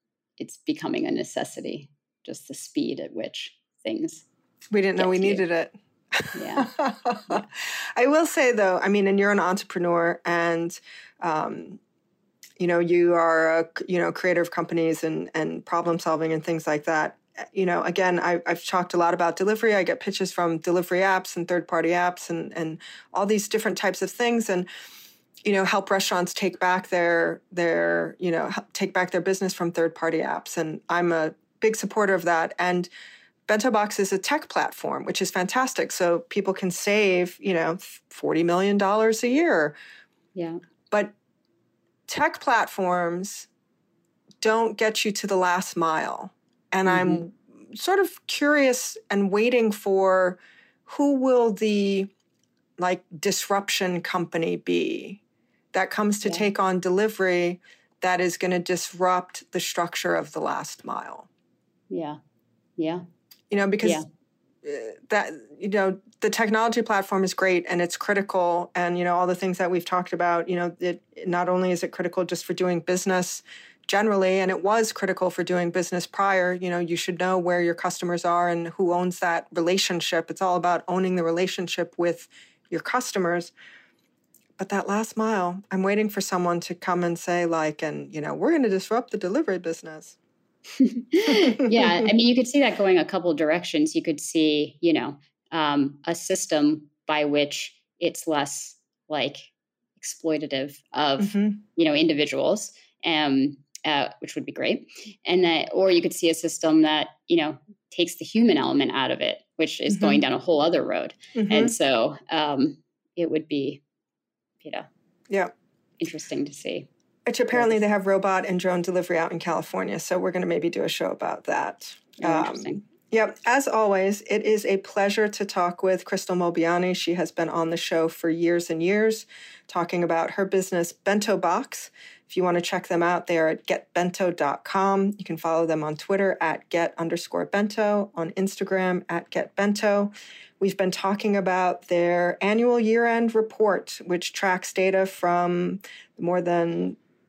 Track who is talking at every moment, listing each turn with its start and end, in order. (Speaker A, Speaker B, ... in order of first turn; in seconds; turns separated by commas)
Speaker A: 0.4-4.2, Speaker B: 4.7-11.8, Speaker A: 5.0-5.4, Speaker A: 6.3-6.7, Speaker B: 12.6-24.7, Speaker B: 25.4-32.9, Speaker B: 33.5-39.8, Speaker A: 40.4-40.6, Speaker B: 42.1-43.5, Speaker B: 44.4-52.1, Speaker A: 46.9-47.2, Speaker B: 52.8-55.2, Speaker B: 55.7-61.3, Speaker A: 56.2-56.5, Speaker A: 61.9-62.2, Speaker A: 62.8-63.0, Speaker B: 63.5-64.0, Speaker B: 64.6-83.5, Speaker B: 84.6-90.2, Speaker A: 90.8-113.8, Speaker B: 91.2-92.1, Speaker B: 101.2-101.6, Speaker B: 109.9-110.2, Speaker B: 111.3-111.8, Speaker A: 114.6-114.9, Speaker A: 116.0-116.9, Speaker B: 117.3-147.0, Speaker A: 117.5-117.8, Speaker A: 122.2-122.8